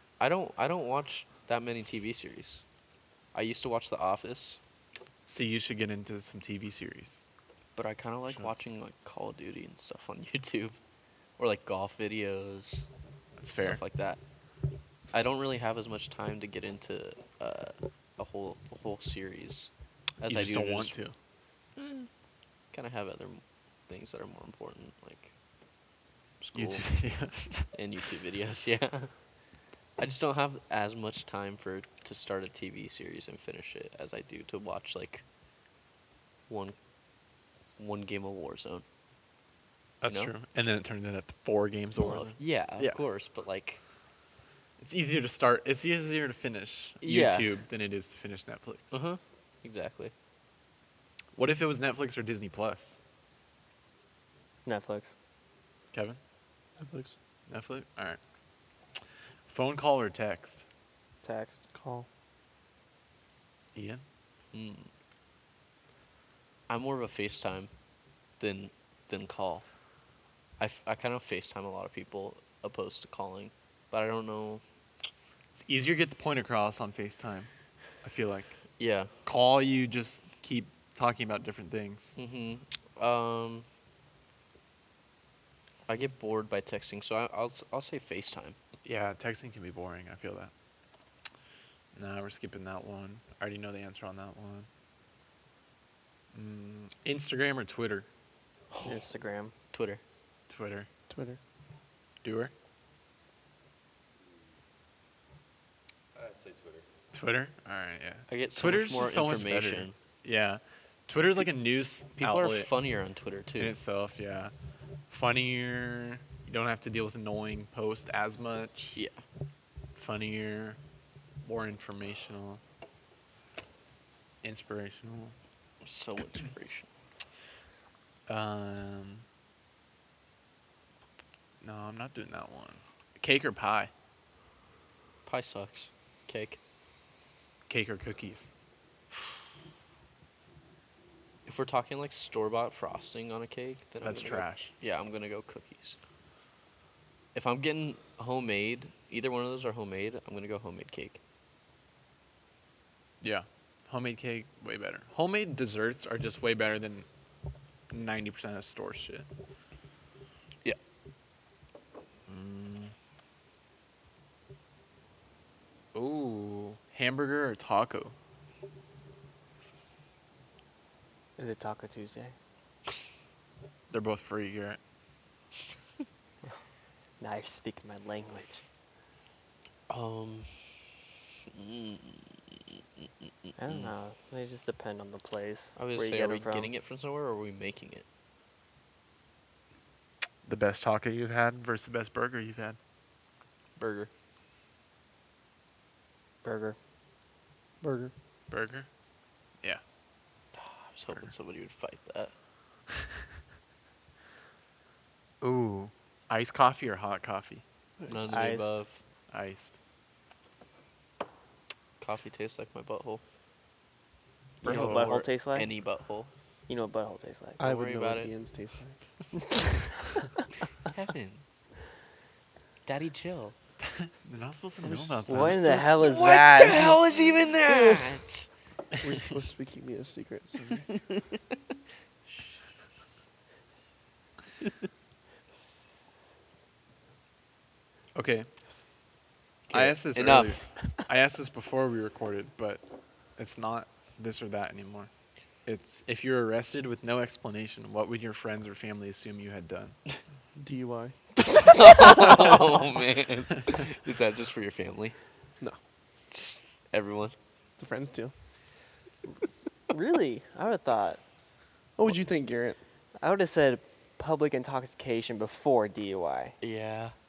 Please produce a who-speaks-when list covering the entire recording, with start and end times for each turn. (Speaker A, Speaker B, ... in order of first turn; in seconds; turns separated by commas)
Speaker A: 0.2-2.6, Speaker A: 3.3-4.6, Speaker B: 5.3-7.2, Speaker A: 7.8-10.8, Speaker A: 11.4-12.9, Speaker B: 13.4-13.8, Speaker A: 13.6-14.2, Speaker A: 15.1-20.9, Speaker B: 20.3-21.1, Speaker A: 21.8-22.1, Speaker A: 22.7-25.3, Speaker A: 26.4-26.9, Speaker B: 26.6-27.7, Speaker A: 27.7-29.1, Speaker A: 30.0-35.2, Speaker A: 36.5-36.8, Speaker A: 37.8-38.8, Speaker B: 40.0-43.0, Speaker A: 40.1-40.3, Speaker A: 42.0-43.8, Speaker B: 44.8-49.0, Speaker A: 47.0-47.5, Speaker A: 48.9-50.1, Speaker B: 51.4-53.0, Speaker C: 54.6-55.1, Speaker B: 55.9-56.2, Speaker D: 56.8-57.2, Speaker B: 57.5-58.2, Speaker B: 59.5-60.6, Speaker C: 61.2-61.6, Speaker D: 61.7-62.1, Speaker B: 63.8-64.0, Speaker A: 64.5-64.9, Speaker A: 66.7-67.7, Speaker A: 68.4-69.7, Speaker A: 70.6-74.6, Speaker B: 75.5-77.5, Speaker B: 78.0-78.6, Speaker A: 78.8-79.1, Speaker B: 79.2-82.2, Speaker A: 82.2-83.7, Speaker A: 85.9-88.6, Speaker B: 88.8-90.5, Speaker B: 92.0-94.7, Speaker B: 96.3-98.1, Speaker C: 98.8-99.5, Speaker A: 99.7-100.0, Speaker B: 100.5-100.9, Speaker D: 101.1-101.4, Speaker B: 102.2-102.5, Speaker B: 107.1-112.7, Speaker A: 108.3-110.0, Speaker A: 112.2-113.8, Speaker B: 113.6-114.5, Speaker B: 115.1-119.0, Speaker B: 120.0-120.8, Speaker B: 121.4-122.6, Speaker B: 124.4-125.3, Speaker A: 125.8-126.9, Speaker B: 128.3-129.2, Speaker B: 131.6-133.9, Speaker A: 135.3-136.6, Speaker B: 137.7-138.5, Speaker A: 141.5-146.0, Speaker B: 144.0-144.7, Speaker A: 147.3-151.2, Speaker B: 153.2-157.1, Speaker B: 157.9-159.3, Speaker B: 162.3-162.9, Speaker B: 165.9-168.2, Speaker C: 171.4-172.3, Speaker B: 173.9-174.8, Speaker C: 177.2-178.6, Speaker A: 179.9-180.8, Speaker A: 181.5-182.4, Speaker C: 183.6-186.7, Speaker A: 185.8-188.1, Speaker B: 190.4-192.8, Speaker A: 193.8-194.1, Speaker C: 196.4-196.8, Speaker D: 197.8-198.1, Speaker B: 198.5-198.9, Speaker A: 200.6-202.3, Speaker B: 205.4-207.6, Speaker D: 208.0-208.4, Speaker A: 208.1-209.0, Speaker C: 208.3-208.8, Speaker B: 209.3-209.8, Speaker A: 212.0-213.2, Speaker C: 214.6-215.7, Speaker A: 214.6-216.3, Speaker B: 214.6-215.1, Speaker C: 216.7-217.6, Speaker D: 217.6-219.0, Speaker A: 217.6-218.3, Speaker A: 220.9-221.4, Speaker A: 222.9-223.6, Speaker B: 223.8-225.9, Speaker D: 224.8-226.1, Speaker C: 225.3-227.0, Speaker A: 226.0-228.5, Speaker C: 227.7-228.1, Speaker D: 229.0-230.9, Speaker B: 238.2-238.5, Speaker B: 239.7-242.8, Speaker A: 239.7-240.7, Speaker B: 243.4-245.1, Speaker B: 245.7-250.0, Speaker D: 250.6-251.2, Speaker A: 251.4-255.2, Speaker A: 256.3-257.4, Speaker D: 257.8-258.3, Speaker C: 259.9-261.2, Speaker D: 262.0-262.8, Speaker C: 263.2-266.6, Speaker A: 266.6-267.1